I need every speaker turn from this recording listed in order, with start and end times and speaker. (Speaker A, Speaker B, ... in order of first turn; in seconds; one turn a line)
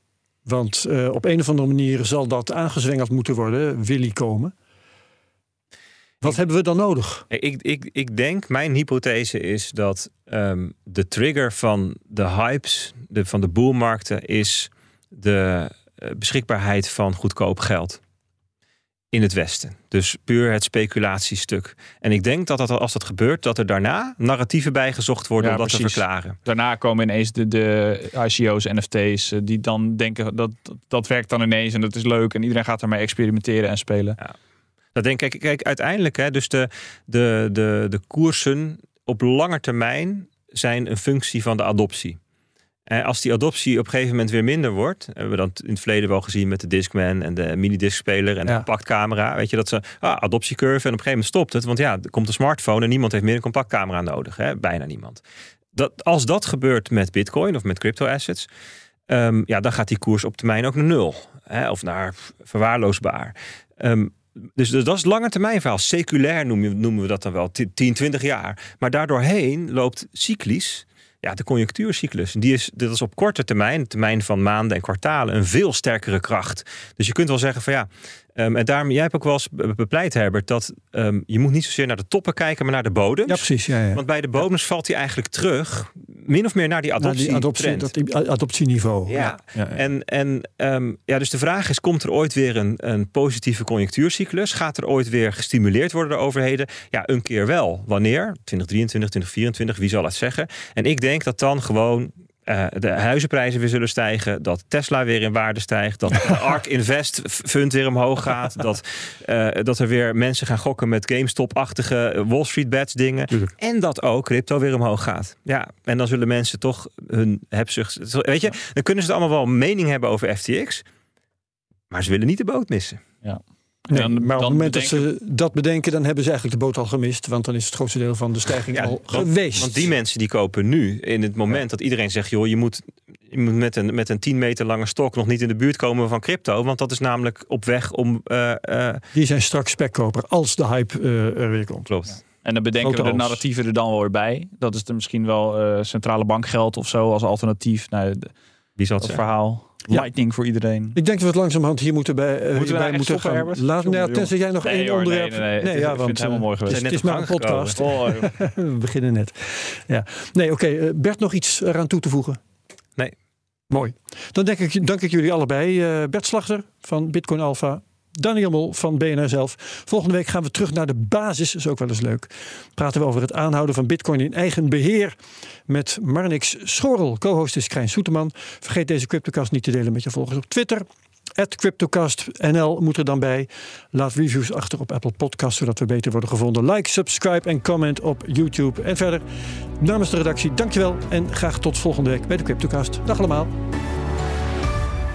Speaker A: 0.5-4.5
Speaker A: 6.2-7.2
Speaker B: 7.3-18.0
Speaker B: 19.1-26.4
Speaker C: 25.4-34.2
Speaker B: 35.0-42.2
Speaker B: 42.9-55.2
Speaker B: 55.7-58.5
Speaker B: 59.1-87.9
Speaker A: 83.3-84.0
Speaker A: 87.0-89.8
Speaker B: 89.1-120.8
Speaker B: 121.9-123.0
Speaker C: 123.2-125.1
Speaker A: 123.9-129.8
Speaker B: 128.7-139.0
Speaker A: 139.1-141.9
Speaker B: 141.9-142.2
Speaker C: 142.4-148.3
Speaker A: 142.8-143.4
Speaker B: 148.8-149.2
Speaker C: 149.0-150.9
Speaker A: 150.9-162.4
Speaker C: 152.5-156.9
Speaker B: 156.7-157.8
Speaker C: 157.8-158.3
Speaker A: 163.7-175.2
Speaker A: 175.7-180.8
Speaker A: 181.4-189.2
Speaker A: 189.8-193.5